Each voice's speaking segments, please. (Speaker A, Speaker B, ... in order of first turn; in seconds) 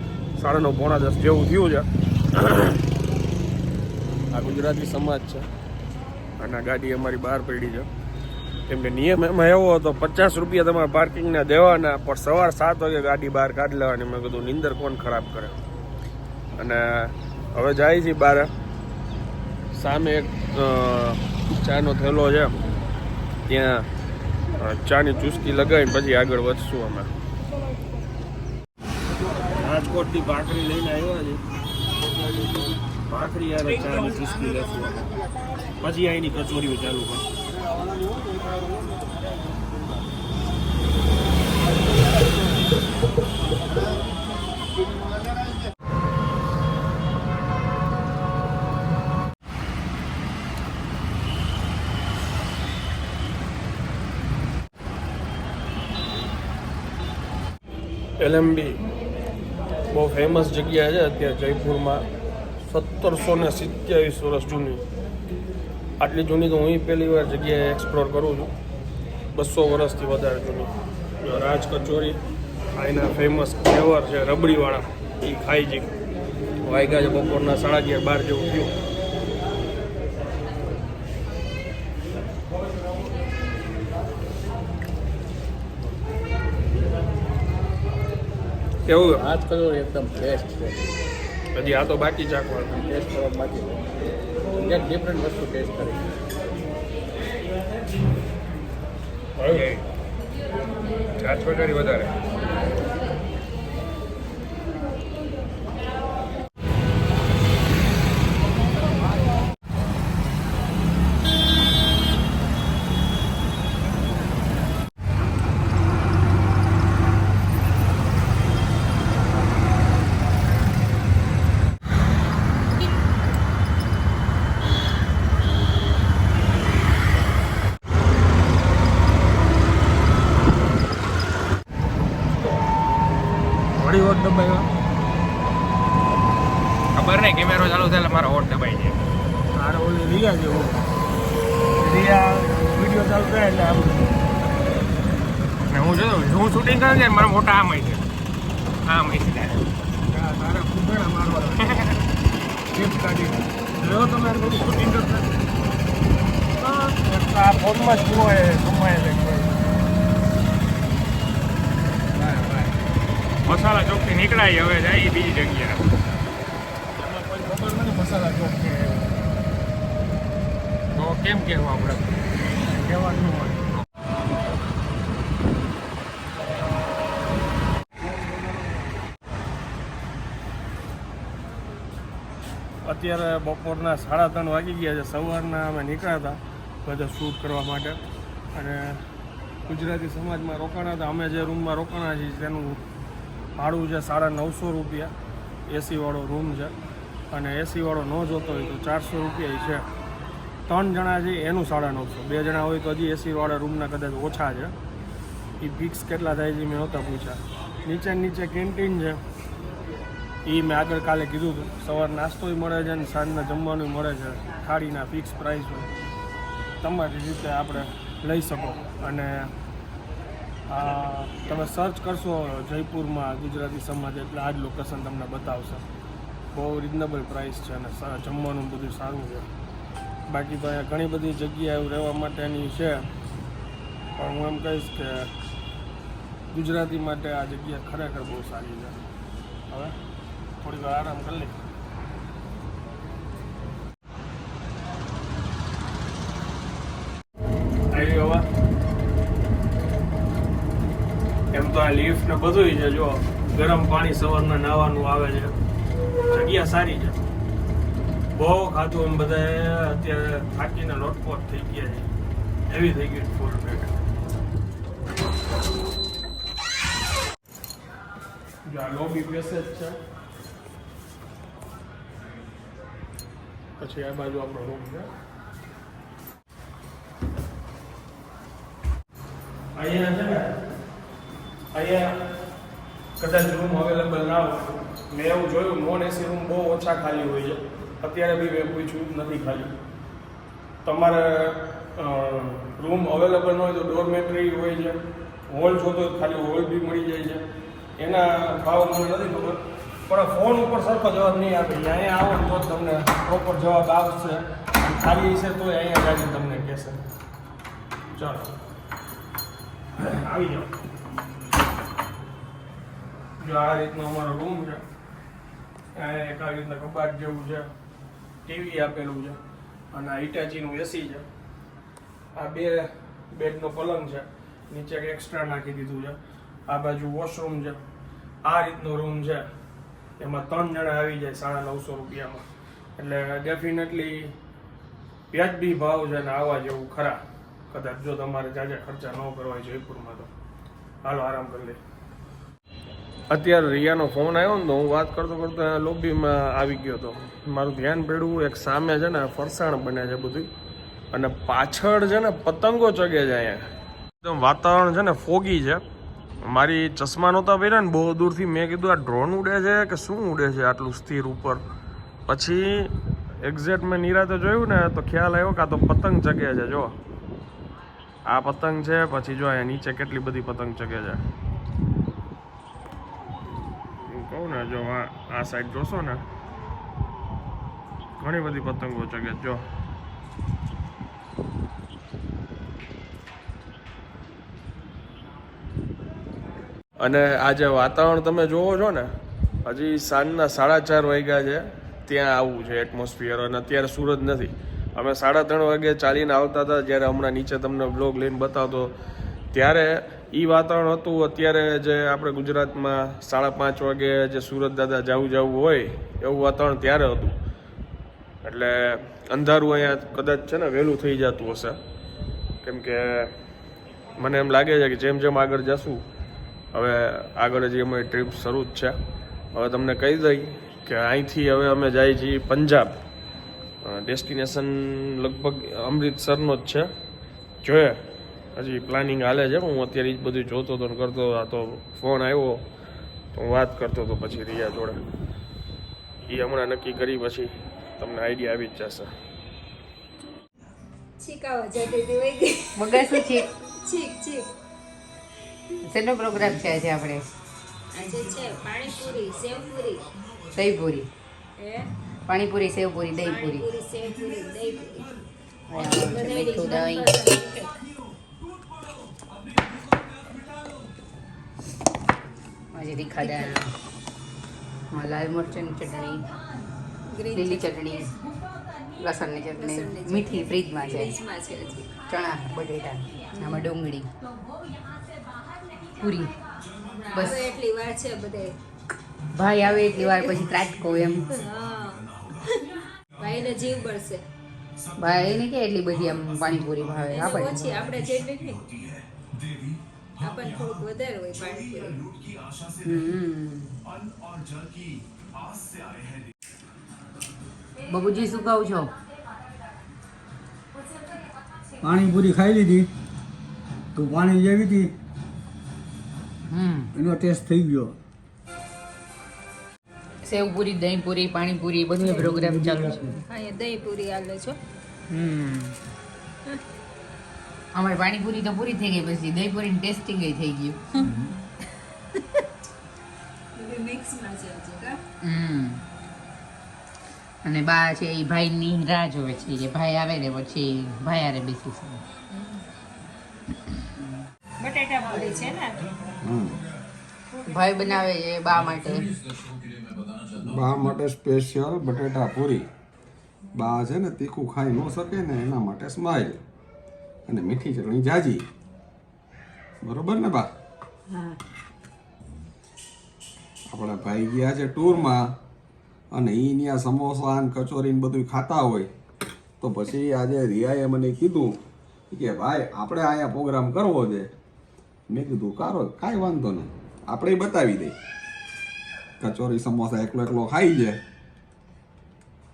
Speaker A: 0.3-2.8, 4.3-5.5, 6.4-7.9, 8.7-15.5, 16.6-18.5, 19.7-22.5, 23.5-23.9, 24.6-27.1, 29.6-31.4, 33.1-35.0, 35.8-37.2, 58.2-58.8, 59.9-62.0, 62.7-64.8, 66.0-68.5, 69.3-72.2, 72.7-75.9, 76.6-78.7, 88.8-89.2, 91.5-92.8, 99.4-99.6, 133.8-134.7, 139.5-140.8, 141.8-144.1, 150.0-151.8, 152.7-155.3, 156.6-159.6, 162.2-162.7, 163.5-165.0, 167.0-169.1, 172.7-173.6, 182.8-188.0, 188.5-189.0, 189.7-192.8, 193.6-195.1, 195.7-196.7, 197.3-199.8, 200.7-204.7, 205.6-209.2, 210.4-215.9, 216.8-219.5, 220.7-225.8, 226.5-229.5, 230.3-233.1, 234.2-235.3, 236.5-238.9, 239.7-239.9, 240.6-241.6, 247.9-248.4, 251.5-255.5, 256.3-257.2, 258.3-262.1, 262.7-263.9, 268.6-269.9, 273.8-275.1, 279.7-280.5, 281.7-282.3, 283.2-289.7, 290.8-297.4, 298.0-307.0, 308.1-308.6, 309.9-310.7, 313.4-314.8, 315.9-317.7, 318.4-319.4, 319.9-321.2, 322.3-327.8, 328.4-329.5, 330.2-332.4, 333.0-334.3, 335.3-340.3, 341.0-341.8, 343.3-350.5, 351.1-353.7, 354.2-355.8, 356.4-361.6, 362.3-366.9, 368.3-371.2, 374.0-376.2, 378.2-379.6, 387.0-389.1, 389.6-398.9, 399.5-407.4, 408.4-411.8, 412.6-413.3, 414.2-416.0, 416.7-418.9, 419.5-422.9, 423.8-426.9, 427.6-428.0, 428.6-432.6, 433.3-435.0, 436.3-439.1
Speaker B: 89.2-90.8, 93.0-93.8, 94.6-96.0
Speaker C: 101.2-102.1, 136.9-139.0, 145.7-148.0, 148.9-149.7, 151.7-151.9, 164.3-165.8, 170.9-172.0
Speaker D: 441.2-444.5, 447.9-450.1, 451.6-451.9, 453.2-455.1, 455.7-457.8, 463.2-463.6, 467.1-467.7, 469.5-471.9, 473.4-473.7, 476.9-478.6, 479.8-480.4, 481.2-484.2, 487.1-488.7, 490.2-492.0, 512.0-514.6, 523.5-525.0, 534.6-535.9
Speaker E: 442.8-443.5, 445.8-447.3, 450.5-451.1, 452.3-453.6, 455.7-457.1, 462.7-463.7, 464.9-466.2, 467.3-468.1, 469.0-471.1, 472.1-474.1, 476.0-476.4, 477.1-477.4, 479.3-481.3, 485.0-487.8, 492.8-493.7, 497.9-498.9, 506.5-506.9, 510.2-513.1, 515.1-515.8, 517.7-521.2, 525.2-525.8, 527.4-532.0, 537.5-539.1
Speaker F: 501.8-502.9, 503.9-504.9, 506.9-508.0, 512.2-513.1
Speaker G: 536.2-536.6, 540.4-542.6, 543.5-546.4, 547.3-548.5, 549.8-550.5, 553.7-555.4, 556.1-558.9, 559.6-561.6, 562.1-564.3, 565.1-568.0, 569.2-571.0